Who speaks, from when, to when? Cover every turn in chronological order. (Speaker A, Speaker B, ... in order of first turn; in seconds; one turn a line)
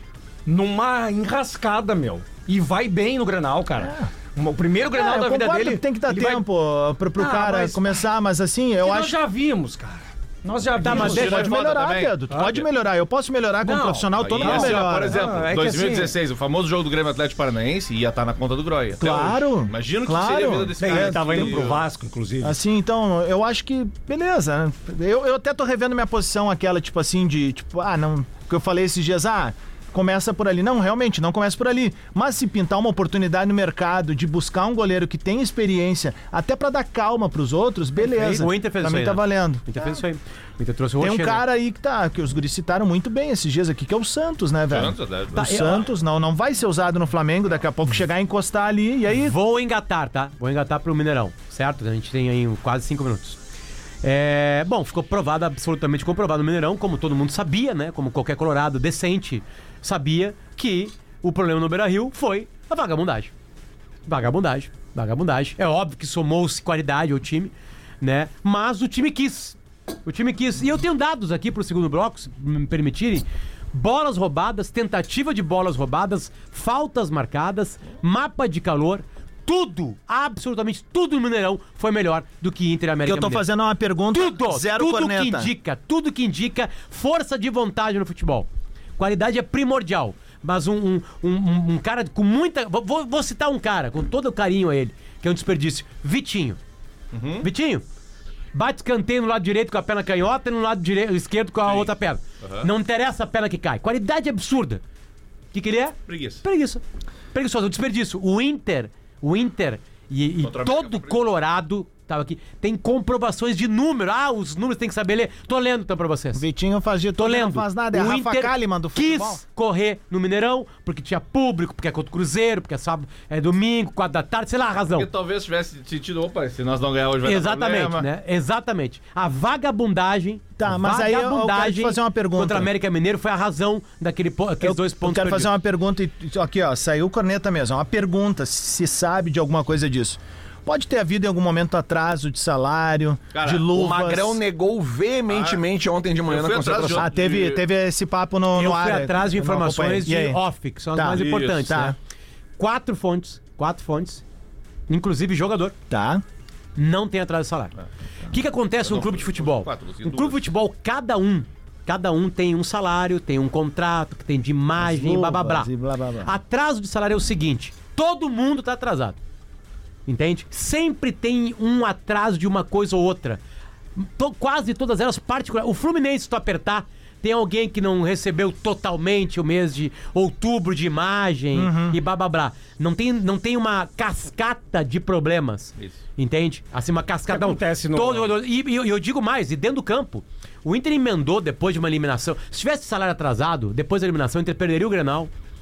Speaker A: 0.5-6.4
Speaker B: 4.9-9.2
Speaker A: 7.2-8.0
Speaker A: 8.8-11.5
Speaker C: 10.8-11.5
Speaker B: 10.8-15.2
Speaker D: 10.8-12.6
Speaker A: 13.6-16.1
Speaker D: 14.2-21.8
Speaker B: 19.0-21.6
Speaker A: 20.8-22.6
Speaker B: 22.4-40.0
Speaker C: 38.0-41.4
Speaker B: 41.0-49.4
Speaker D: 44.7-45.4
Speaker C: 45.3-45.9
Speaker C: 49.2-53.4
Speaker C: 54.0-63.3
Speaker C: 64.1-83.4
Speaker B: 83.0-85.5
Speaker C: 84.1-96.6
Speaker D: 97.1-97.5
Speaker C: 97.4-97.8
Speaker C: 98.5-104.8
Speaker D: 101.6-101.9
Speaker D: 102.4-102.7
Speaker C: 105.5-106.8
Speaker D: 106.1-106.4
Speaker C: 107.3-116.4
Speaker D: 110.4-111.3
Speaker B: 116.3-119.4
Speaker C: 117.2-125.1
Speaker D: 124.9-128.1
Speaker C: 127.2-135.5
Speaker B: 130.6-132.7
Speaker B: 134.6-144.4
Speaker D: 143.3-143.7
Speaker E: 143.7-147.1
Speaker D: 145.3-145.6
Speaker D: 146.2-147.6
Speaker B: 146.9-150.4
Speaker C: 148.5-151.9
Speaker B: 150.9-151.9
Speaker D: 151.1-151.7
Speaker C: 152.6-154.2
Speaker C: 154.9-155.7
Speaker B: 155.9-156.2
Speaker C: 156.8-157.7
Speaker C: 158.3-165.7
Speaker D: 158.8-160.4
Speaker B: 164.8-166.3
Speaker C: 166.2-169.2
Speaker C: 170.1-173.4
Speaker C: 173.9-195.3
Speaker B: 181.5-182.0
Speaker A: 187.3-188.3